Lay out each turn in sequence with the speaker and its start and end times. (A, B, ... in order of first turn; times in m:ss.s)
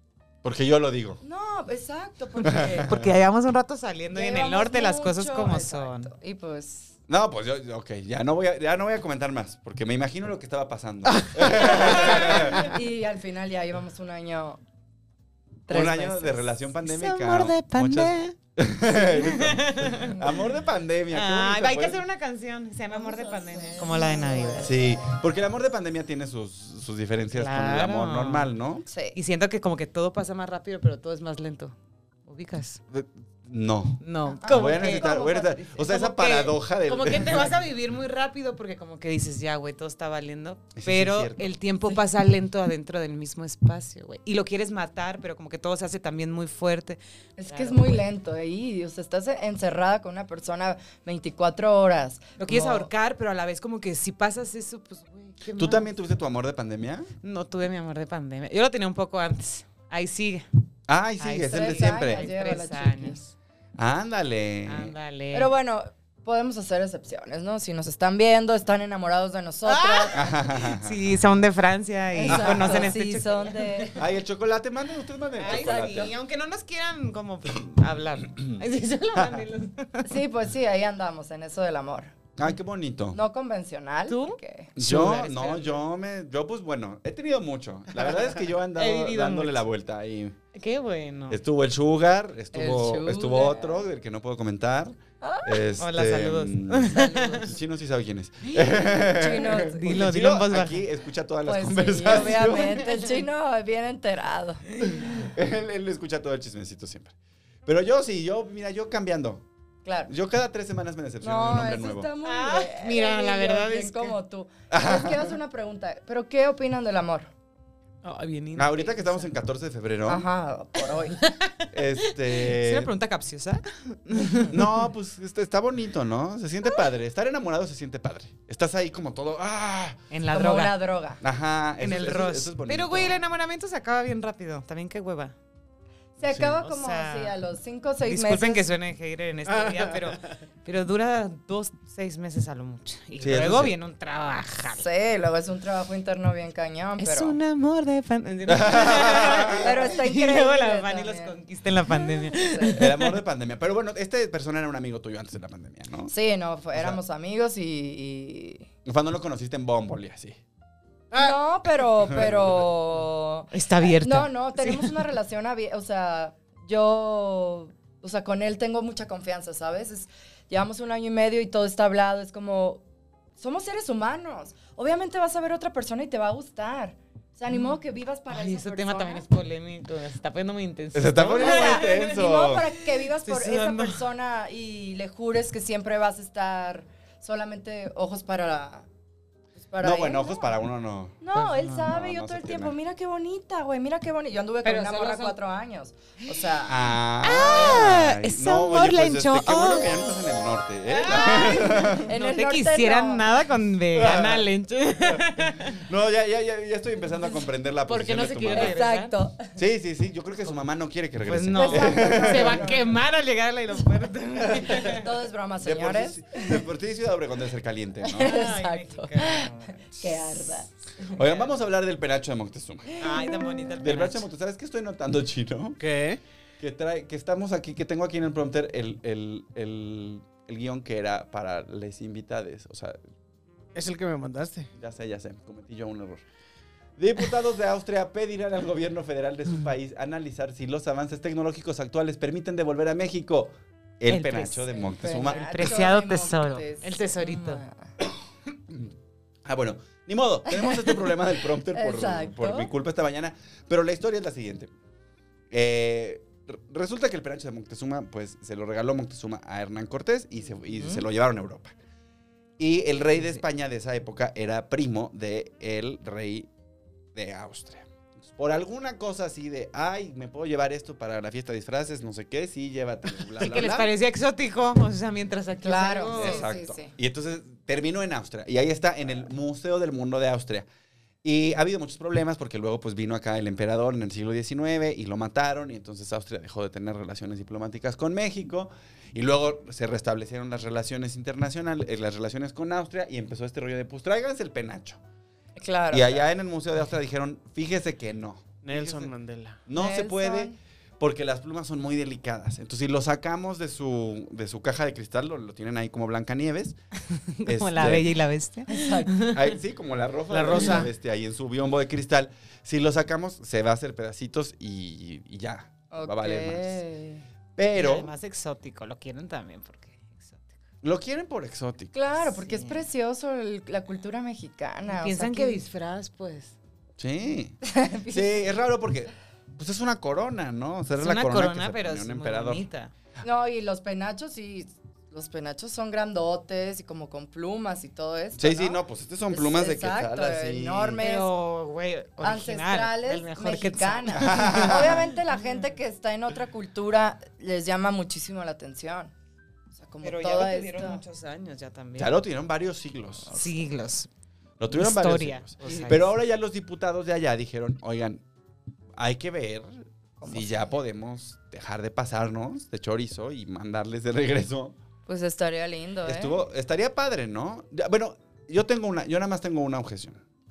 0:00.4-0:01.2 A
0:01.2-0:02.9 B
0:02.4-0:03.1 A
0:02.9-0:06.1 C
0:04.1-0:07.0 B
0:07.1-0:12.6 A
0:11.7-0:14.6 B
0:11.7-0:12.8 C
0:15.7-0:16.5 B
0:15.7-0:22.0 A
0:16.8-0:18.4 C
0:19.1-0:20.2 C
0:21.1-0:24.7 C
0:22.9-0:24.7 B
0:24.6-0:28.9 A
0:27.3-0:28.5 C
0:28.9-0:29.2 B
0:29.2-0:31.8 C
0:32.3-0:32.8 C
0:32.9-0:37.6 A
0:34.0-0:48.0 C
0:34.3-0:35.8 B
0:40.8-0:41.5 A
0:47.4-0:52.9 B
0:52.4-0:55.9 C
0:55.6-0:57.1 A
0:57.2-1:00.5 C
1:00.9-1:02.3 A
1:01.2-1:03.2 C
1:01.5-1:03.3 B
1:03.8-1:04.9 A
1:04.7-1:05.5 C
1:05.3-1:10.3 B
1:09.7-1:13.9 C
1:10.1-1:11.0 A
1:12.1-1:14.0 B
1:12.3-1:12.9 A
1:14.0-1:16.1 A
1:15.4-1:20.1 C
1:20.0-1:22.2 B
1:22.4-1:23.2 A
1:23.1-1:24.7 B
1:24.1-1:25.8 C
1:24.8-1:30.4 A
1:28.8-1:29.6 C
1:30.6-1:31.4 C
1:31.3-1:43.0 A
1:32.5-1:33.8 B
1:35.2-1:35.6 B
1:35.8-1:37.5 C
1:37.0-1:37.5 B
1:38.7-1:39.9 B
1:39.4-1:40.9 C
1:41.5-1:44.6 B
1:44.8-1:45.1 C
1:45.0-1:47.2 A
1:47.7-1:49.4 A
1:49.8-1:50.1 B
1:50.1-1:52.1 A
1:51.2-1:57.3 B
1:52.2-1:54.2 C
1:54.7-1:55.4 A
1:58.0-1:59.3 C
1:58.6-2:00.3 A
2:00.1-2:01.2 B
2:01.1-2:04.7 C
2:01.7-2:02.9 A
2:04.4-2:10.0 A
2:10.1-2:10.7 C
2:10.3-2:11.2 B
2:11.2-2:13.2 A
2:11.8-2:15.4 C
2:16.2-2:18.6 B
2:16.2-2:16.6 A
2:16.6-2:17.4 C
2:18.1-2:24.8 C
2:19.5-2:20.0 D
2:23.2-2:23.8 A
2:24.8-2:27.4 B
2:27.0-2:33.2 C
2:28.5-2:29.7 A
2:29.5-2:31.3 B
2:31.9-2:32.8 B
2:32.7-2:36.1 A
2:36.1-2:38.7 B
2:36.7-2:37.0 A
2:38.8-2:40.4 A
2:41.1-2:52.8 B
2:42.1-2:42.6 A
2:43.5-2:45.0 C
2:53.4-2:59.2 B
2:58.3-3:04.0 C
3:00.9-3:02.7 A
3:01.3-3:08.9 B
3:09.6-3:10.5 B
3:09.8-3:11.2 A
3:11.2-3:16.9 B
3:11.4-3:11.9 C
3:11.8-3:12.7 A
3:14.6-3:15.4 C
3:16.7-3:22.1 A
3:17.2-3:20.1 C
3:20.9-3:25.8 C
3:21.1-3:23.3 B
3:23.9-3:24.5 A
3:25.1-3:28.8 A
3:27.8-3:29.1 C
3:28.5-3:29.5 B
3:29.6-3:32.7 A
3:31.3-3:35.1 C
3:31.5-3:33.0 B
3:34.7-3:36.6 B
3:35.6-3:38.5 A
3:38.0-3:40.7 B
3:38.2-3:40.5 C
3:41.1-3:41.5 C
3:41.1-3:43.0 A
3:43.0-3:44.3 C
3:43.2-3:43.4 B
3:43.7-3:45.8 A
3:45.8-3:46.2 D
3:46.6-3:53.0 A
3:53.8-3:54.7 D
3:54.8-3:56.2 A
3:57.0-4:05.7 A
4:04.1-4:07.6 C
4:05.0-4:07.8 B
4:09.4-4:14.7 A
4:10.5-4:11.1 B
4:11.7-4:12.7 B
4:15.5-4:21.8 A
4:20.7-4:21.0 B
4:22.6-4:26.5 A
4:27.2-4:33.9 A
4:33.4-4:36.5 C
4:35.6-4:36.9 B
4:36.1-4:40.7 A
4:41.2-4:55.0 A
4:55.6-4:56.3 B
4:55.9-4:59.1 A
4:58.6-4:59.6 D
4:59.7-5:06.8 A
4:59.8-5:00.6 B
5:07.4-5:09.5 C
5:07.4-5:08.1 A
5:08.7-5:09.2 B
5:09.3-5:16.8 A
5:10.3-5:10.9 D
5:15.9-5:17.2 B
5:17.6-5:18.1 A
5:17.7-5:20.6 C
5:20.8-5:21.9 A
5:21.9-5:25.6 B
5:22.4-5:22.8 C
5:24.9-5:26.5 C
5:27.0-5:32.6 A
5:27.6-5:28.5 B
5:31.0-5:32.9 C
5:33.2-5:41.3 B
5:38.4-5:41.0 A
5:41.0-5:45.0 C
5:42.2-5:49.1 B
5:44.2-5:45.0 A
5:49.8-5:51.0 B
5:50.0-5:52.2 C
5:52.0-5:53.4 A
5:53.3-5:54.1 C
5:54.6-5:58.2 A
5:54.7-5:56.2 C
5:55.6-5:55.9 B
5:59.0-6:04.8 A
6:00.2-6:00.5 B
6:05.1-6:06.4 B
6:06.1-6:10.2 A